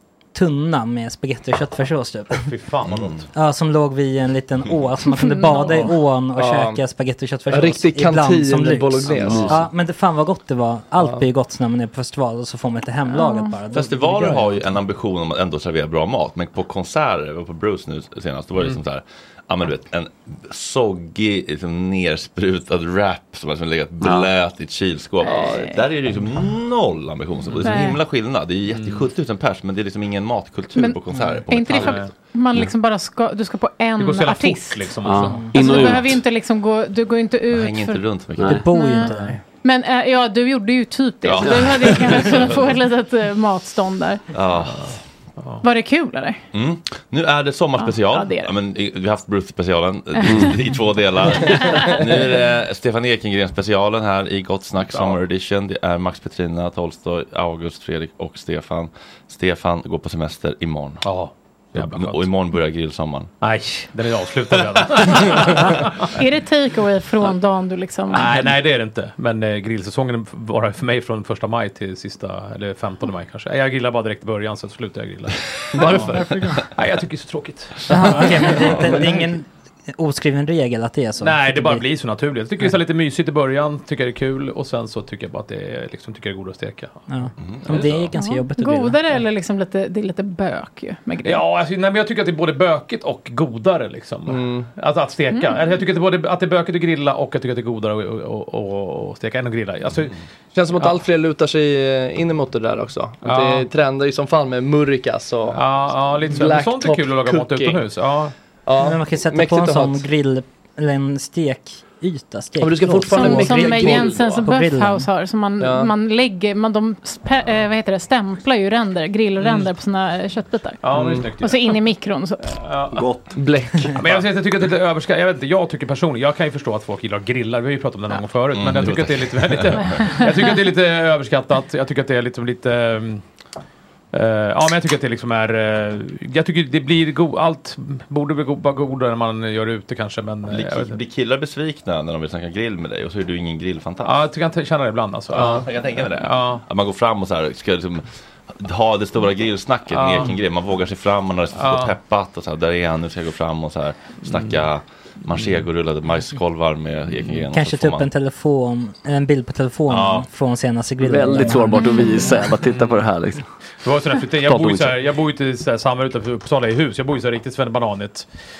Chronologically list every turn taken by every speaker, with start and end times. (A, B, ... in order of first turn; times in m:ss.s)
0:00.3-0:02.5 A
0:02.4-0:03.2 B
0:02.9-0:03.2 C
0:03.3-0:14.6 A
0:05.1-0:05.9 D
0:06.4-0:06.8 E
0:07.5-0:09.7 E
0:09.1-0:09.6 F
0:11.0-0:11.2 E
0:13.1-0:13.5 D
0:13.7-0:32.0 C
0:24.0-0:24.3 F
0:25.2-0:25.8 D
0:27.5-0:27.8 B
0:27.6-0:28.0 D
0:28.7-0:29.1 B
0:30.8-0:34.9 D
0:31.7-0:32.1 B
0:34.0-0:36.1 B
0:35.0-0:36.1 F
0:35.5-0:38.0 D
0:37.5-0:38.6 C
0:38.4-0:38.7 F
0:38.4-0:39.4 A
0:38.7-0:44.2 D
0:39.1-0:39.3 B
0:41.2-0:42.7 C
0:44.3-0:44.9 C
0:45.4-0:45.6 B
0:45.6-0:46.4 D
0:46.5-1:01.1 C
0:47.8-0:48.5 D
0:50.3-0:50.5 F
0:51.4-0:52.0 D
0:54.9-0:55.2 B
1:01.0-1:02.3 B
1:01.7-1:03.3 C
1:03.4-1:06.1 B
1:06.1-1:08.4 D
1:08.1-1:19.2 B
1:15.8-1:16.6 A
1:17.9-1:21.8 A
1:21.2-1:27.0 B
1:27.1-1:29.0 A
1:27.4-1:28.1 C
1:28.2-1:31.4 D
1:31.2-1:40.2 B
1:34.3-1:34.7 E
1:35.3-1:35.8 D
1:40.5-1:47.8 E
1:40.7-1:41.0 B
1:43.2-1:43.7 B
1:45.5-1:48.3 B
1:48.6-1:50.0 E
1:48.8-1:55.1 A
1:52.6-1:54.4 E
1:53.1-2:02.5 D
1:55.6-1:55.9 E
1:59.4-1:59.7 B
2:00.8-2:01.8 B
2:00.9-2:01.3 E
2:02.4-2:03.2 B
2:03.3-2:04.2 E
2:03.9-2:13.2 B
2:08.5-2:10.2 C
2:14.1-2:21.0 B
2:20.5-2:24.3 C
2:24.0-2:26.6 B
2:25.3-2:38.1 C
2:29.9-2:30.4 B
2:31.5-2:31.9 B
2:34.2-2:34.6 B
2:35.4-2:35.6 B
2:37.5-2:42.4 A
2:39.9-2:40.3 C
2:41.0-2:43.4 F
2:41.8-2:42.3 D
2:42.6-2:43.1 B
2:43.8-2:48.3 B
2:44.4-2:45.0 F